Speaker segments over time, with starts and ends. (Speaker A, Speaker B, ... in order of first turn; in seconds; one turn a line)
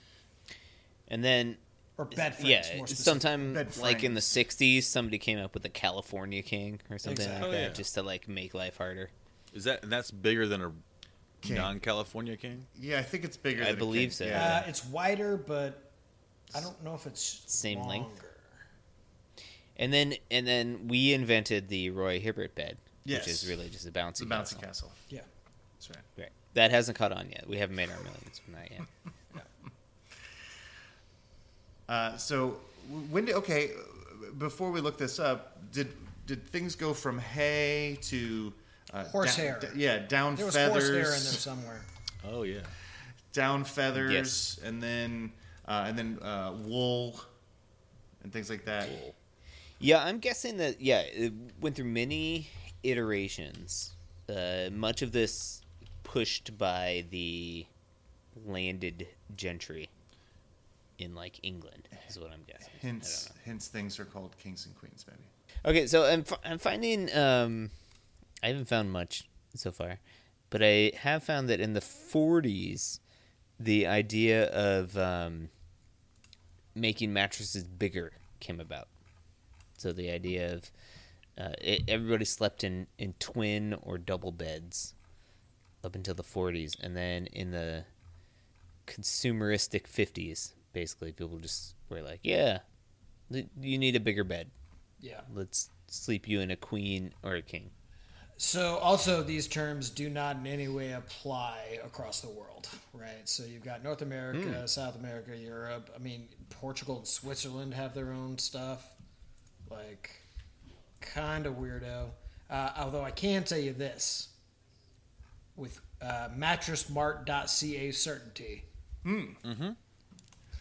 Speaker A: 1.1-9.1
Speaker B: 2.0-3.4
Speaker C: 3.4-4.4
Speaker B: 7.0-7.7
Speaker D: 7.3-7.8
Speaker D: 9.5-10.8
Speaker C: 11.4-11.7
Speaker D: 11.4-12.7
Speaker C: 12.7-14.7
Speaker A: 13.5-14.7
Speaker B: 14.3-15.9
Speaker B: 16.5-18.6
Speaker A: 17.5-18.1
Speaker A: 19.8-24.7
Speaker C: 23.0-23.6
Speaker C: 24.2-25.0
Speaker C: 25.8-26.0
Speaker A: 26.2-28.9
Speaker C: 31.9-41.4
Speaker B: 39.0-39.8
Speaker B: 40.3-41.9
Speaker D: 42.2-42.7
Speaker C: 43.3-47.3
Speaker A: 44.0-44.5
Speaker C: 48.2-49.0
Speaker D: 48.8-49.1
Speaker A: 49.8-57.7
Speaker A: 58.3-59.9
Speaker A: 61.0-63.3
Speaker C: 62.6-65.3
Speaker A: 65.6-67.7
Speaker A: 68.4-73.0
Speaker A: 73.6-75.5
Speaker A: 76.7-78.9
Speaker A: 79.8-80.7
Speaker A: 81.4-84.9
Speaker A: 85.8-87.9
Speaker A: 88.9-92.6
Speaker A: 93.3-94.5
Speaker B: 95.0-95.3
Speaker A: 95.3-97.7
Speaker B: 98.4-109.0
Speaker A: 104.3-104.7
Speaker B: 109.7-110.2
Speaker B: 111.0-114.3
Speaker B: 115.5-118.7
Speaker C: 119.0-119.4
Speaker D: 119.4-119.8